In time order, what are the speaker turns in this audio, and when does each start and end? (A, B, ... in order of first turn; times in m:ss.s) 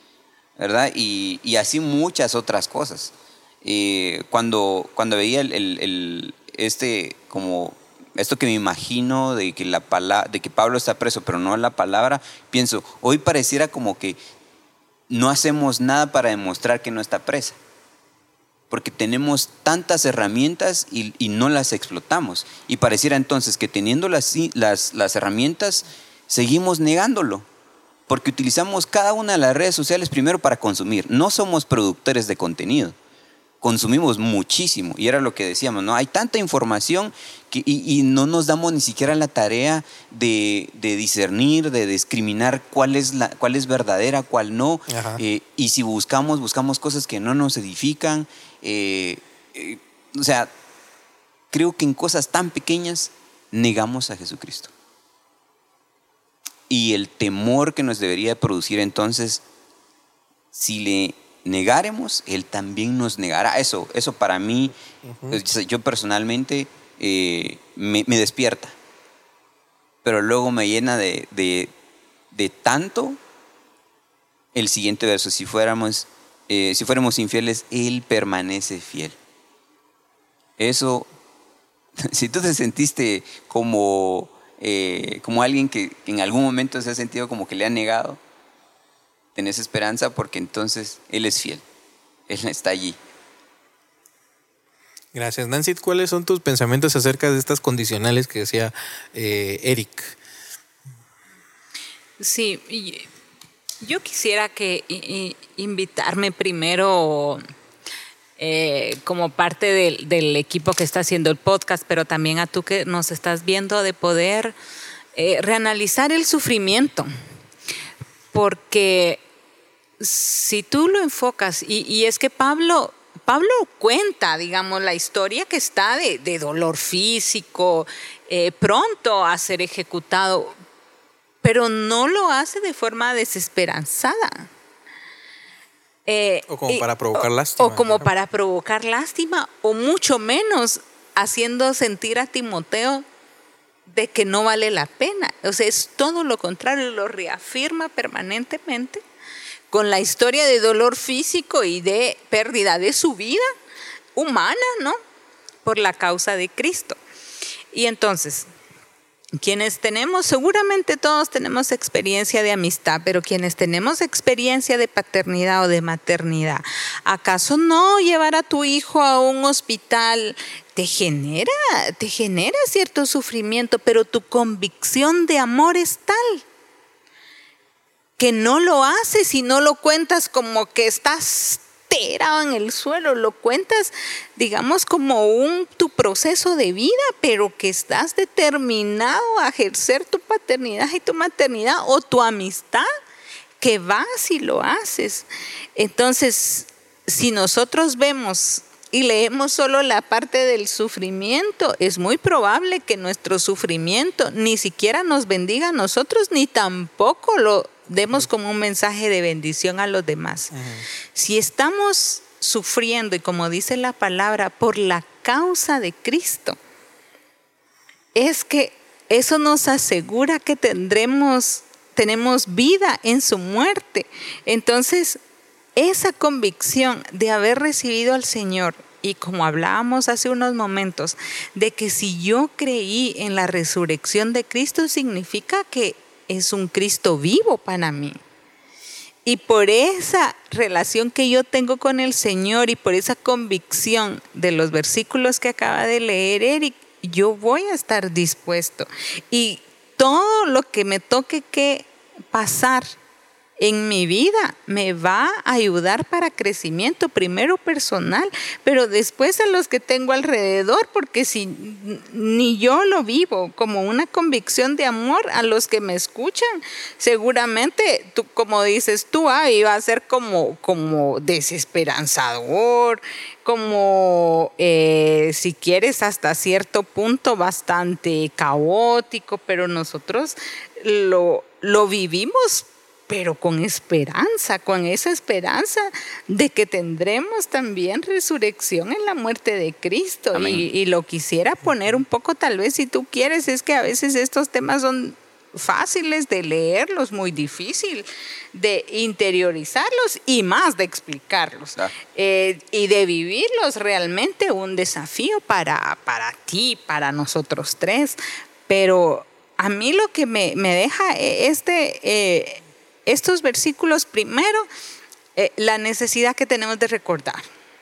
0:00.6-0:14.2 A
0:15.1-0:17.6 A
0:18.7-0:27.4 A
0:28.1-0:33.0 A
0:33.6-0:50.5 A
0:44.9-0:45.2 B
0:51.5-0:54.7 A
0:56.7-0:59.4 A
1:00.5-1:04.7 A
1:05.0-1:05.4 B
1:05.3-1:08.8 A
1:10.0-1:11.7 A
1:12.3-1:13.2 A
1:14.5-1:19.2 A
1:20.6-1:21.1 A
1:22.0-1:28.2 A
1:29.4-1:31.6 A
1:32.3-1:33.0 A
1:35.1-1:40.2 B
1:42.2-1:43.1 C
1:43.8-1:47.4 C
1:48.4-1:54.6 C
1:55.1-1:57.1 C
1:58.3-1:59.2 C
2:00.0-2:10.5 C
2:11.4-2:14.5 C
2:16.1-2:23.0 C
2:16.5-2:18.1 B
2:23.9-2:29.0 C
2:29.7-2:33.5 C
2:34.1-2:35.0 C
2:35.6-2:37.0 C
2:37.7-2:38.5 C
2:39.4-2:56.4 C
2:58.2-3:12.9 C
3:13.6-3:30.5 C
3:30.5-3:30.8 B
3:31.1-3:36.6 C
3:38.1-3:45.2 C
3:45.8-3:58.2 C
3:59.2-4:12.9 C
4:13.6-5:14.7 C
4:50.3-4:50.7 A
5:15.4-5:17.4 C